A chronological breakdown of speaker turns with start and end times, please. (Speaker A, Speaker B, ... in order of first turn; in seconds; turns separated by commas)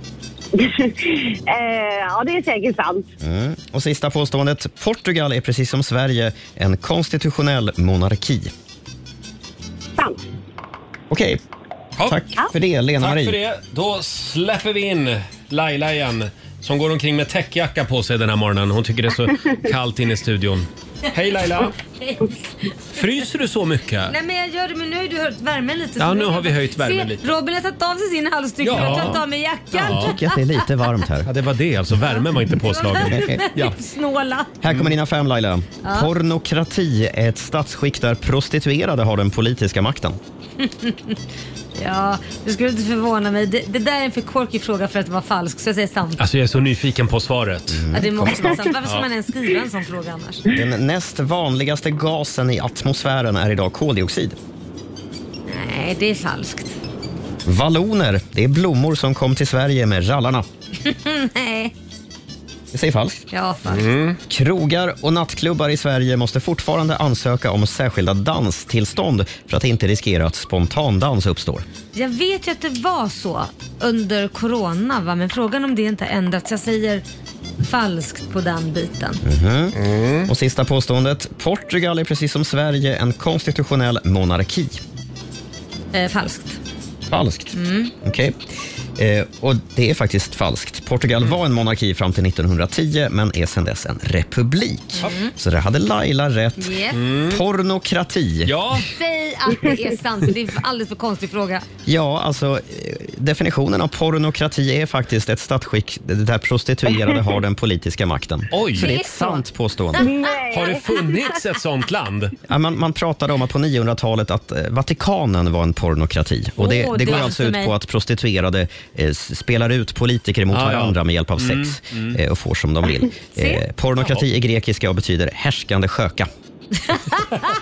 Speaker A: 0.5-3.1, Speaker B: 3.2-8.5, Speaker A: 10.0-10.2, Speaker B: 11.1-11.4, Speaker B: 12.1-13.4, Speaker C: 13.0-21.8, Speaker D: 22.0-23.0, Speaker C: 22.9-24.1, Speaker D: 24.1-30.6, Speaker C: 26.0-27.3, Speaker C: 28.6-29.2, Speaker B: 28.7-29.2, Speaker B: 29.7-31.3, Speaker C: 29.7-30.2, Speaker C: 31.3-33.7, Speaker D: 32.1-34.5, Speaker B: 33.1-33.5, Speaker B: 34.6-40.2, Speaker D: 35.8-36.1, Speaker D: 40.6-41.2, Speaker D: 41.8-46.2, Speaker C: 46.2-47.8, Speaker B: 47.7-48.6, Speaker D: 47.9-50.4, Speaker B: 50.5-54.4, Speaker D: 55.5-56.8, Speaker B: 57.5-60.5, Speaker D: 60.9-61.7, Speaker B: 62.7-63.2, Speaker D: 63.3-63.9, Speaker C: 63.7-64.2, Speaker B: 64.3-71.7, Speaker D: 72.0-77.0, Speaker D: 77.6-79.2, Speaker B: 79.2-84.8, Speaker C: 79.8-80.3, Speaker D: 85.9-86.6, Speaker B: 87.1-88.4, Speaker D: 87.5-87.9, Speaker B: 89.0-98.5, Speaker D: 95.0-95.3, Speaker D: 96.6-97.0, Speaker C: 96.9-97.4, Speaker C: 98.5-98.9, Speaker D: 98.8-101.7, Speaker B: 101.9-110.1, Speaker C: 108.5-108.9, Speaker D: 108.8-110.3, Speaker A: 110.0-111.3, Speaker C: 110.5-112.3, Speaker B: 112.5-126.3, Speaker D: 116.6-117.8, Speaker C: 120.5-122.2, Speaker D: 123.4-123.6, Speaker D: 126.8-127.4